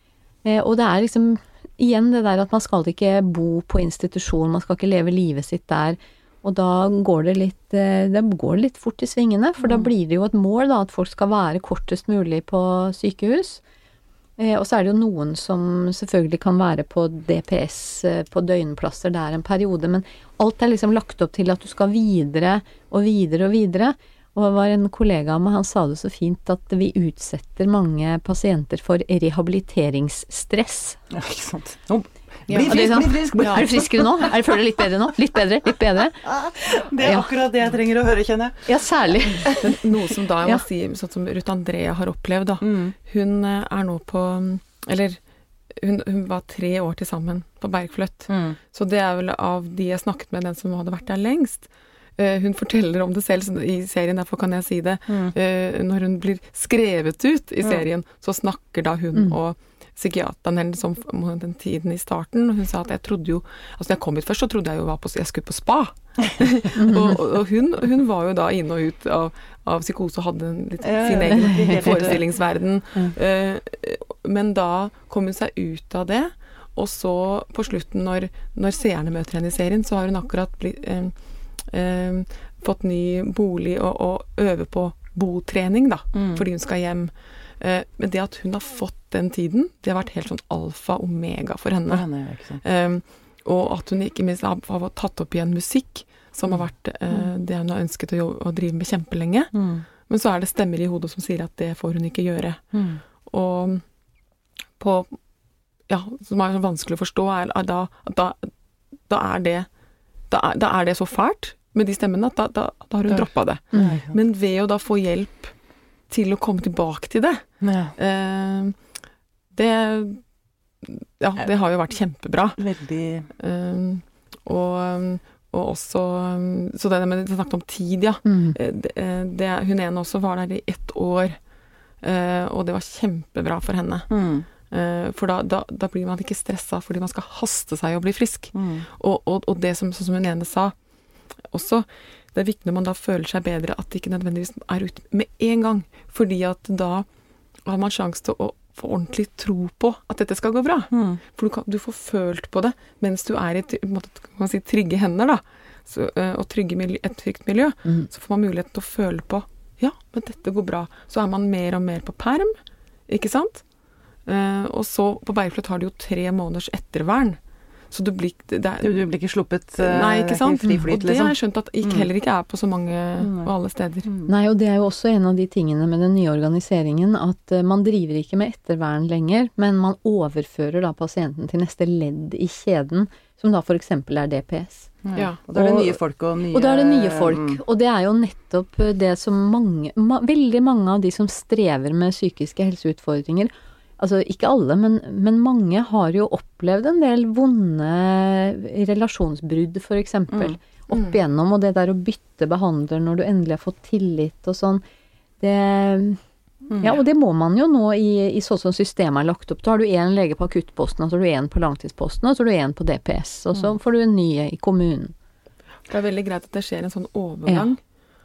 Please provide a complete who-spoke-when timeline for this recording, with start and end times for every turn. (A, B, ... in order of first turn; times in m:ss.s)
0:00.4-0:13.6 A
0:14.4-0:31.0 A
0:31.1-0:34.5 B
0:32.5-0:33.6 C
0:32.6-0:37.3 A
0:36.2-0:38.7 B
0:38.6-0:39.6 A
0:39.5-0:45.2 C
0:42.6-0:42.9 B
0:45.7-1:32.0 C
0:48.3-0:48.6 B
0:55.1-0:55.3 B
1:06.7-1:07.2 A
1:10.8-1:12.2 B
1:11.3-1:12.2 A
1:26.1-1:26.4 B
1:31.9-1:32.6 B
1:32.6-1:43.8 C
1:36.5-1:37.2 B
1:39.5-1:39.8 B
1:42.7-1:43.0 B
1:44.8-1:45.2 C
1:45.9-1:48.5 C
1:49.0-1:49.7 C
1:50.3-1:55.5 C
1:53.1-1:54.2 B
1:56.1-1:57.4 C
1:57.6-1:57.9 B
1:58.0-1:58.8 C
1:59.5-2:00.2 C
2:00.8-2:02.6 C
2:02.6-2:03.3 B
2:03.4-2:11.4 C
2:08.2-2:08.6 A
2:12.0-2:14.1 C
2:14.1-2:14.5 B
2:14.7-2:20.7 C
2:18.5-2:18.8 B
2:21.5-2:27.0 C
2:27.6-2:42.5 C
2:30.9-2:31.2 B
2:43.1-2:43.6 C
2:44.2-2:47.4 C
2:47.9-2:49.0 C
2:48.8-2:52.1 B
2:49.8-2:54.1 C
2:53.2-2:53.5 B
2:54.3-3:04.9 A
3:05.0-3:07.6 B
3:05.1-3:06.0 C
3:06.5-3:24.8 A
3:20.3-3:20.6 B
3:20.9-3:21.2 C
3:25.4-3:26.2 A
3:26.7-3:27.0 B
3:26.8-3:35.1 A
3:35.9-3:37.8 C